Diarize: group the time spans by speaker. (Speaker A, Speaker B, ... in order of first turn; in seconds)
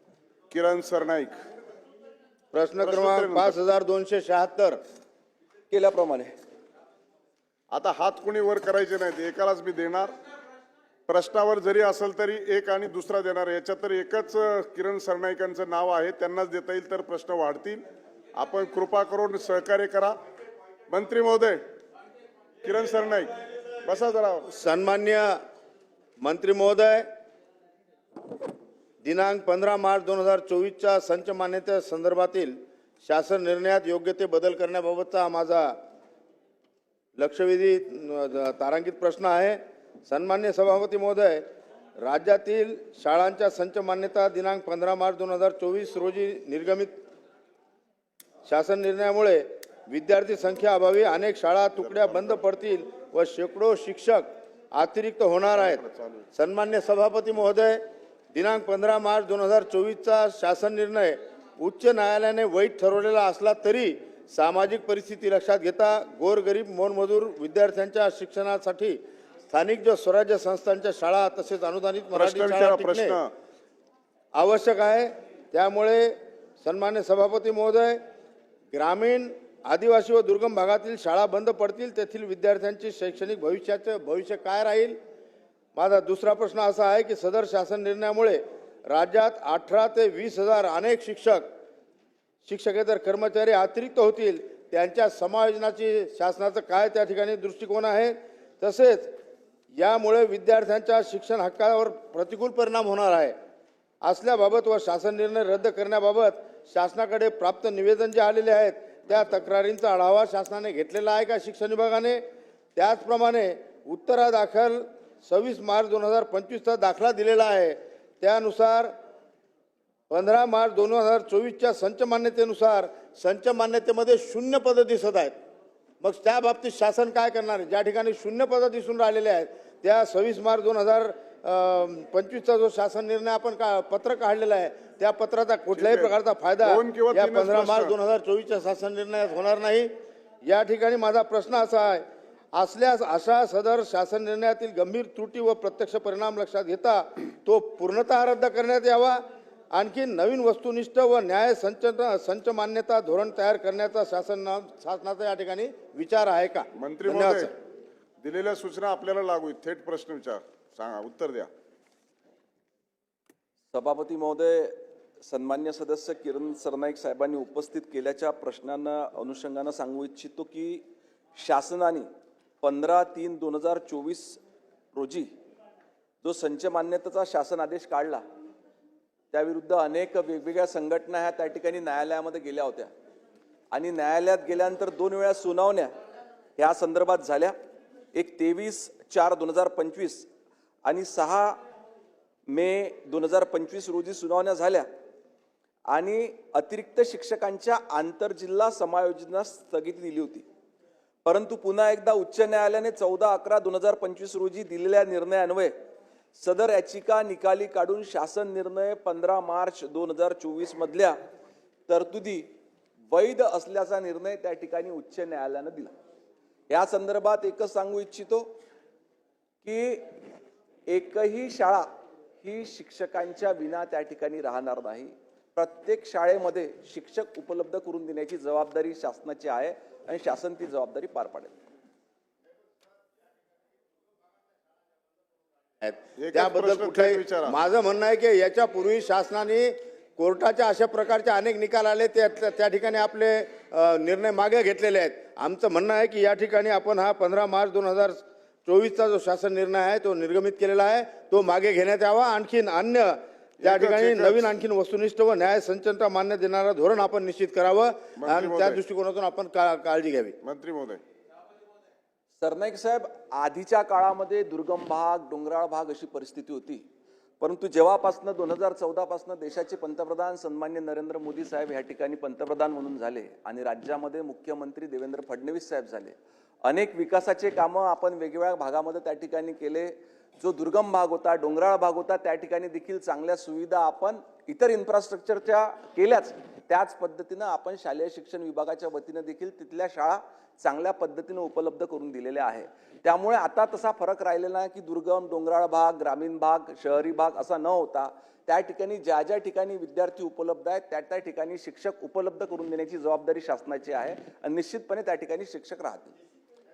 Speaker A: 0.5-1.4, 2.8-3.6, 7.7-10.1, 11.1-17.8, 18.4-20.1, 20.9-21.6, 22.6-23.3, 23.8-24.5, 51.8-52.4, 55.6-56.3, 72.1-73.3, 135.8-137.9, 156.8-157.5, 158.2-161.5, 236.2-237.6, 253.6-254.5, 258.2-258.8, 260.4-261.0
Speaker B: 2.5-4.8, 24.5-25.4, 26.2-27.1, 29.0-35.8, 37.2-41.4, 42.0-47.0, 48.5-55.8, 56.3-57.8, 58.3-69.0, 69.5-73.2, 74.3-78.0, 78.7-85.0, 85.8-91.5, 92.4-99.1, 99.8-103.3, 104.0-112.2, 112.8-118.9, 120.1-125.3, 126.0-139.9, 140.5-157.5, 235.8-260.4
Speaker C: 5.7-6.3, 163.7-170.8, 171.4-172.1, 172.6-174.4, 174.9-175.3, 176.2-178.2, 179.3-182.9, 183.7-185.9, 186.6-187.5, 188.1-190.3, 190.9-191.6, 192.5-194.8, 195.9-200.4, 201.2-205.7, 206.4-211.1, 211.9-212.5, 213.1-215.9, 216.7-218.5, 219.6-220.2, 220.9-221.9, 222.4-231.5, 262.4-266.8, 267.4-306.1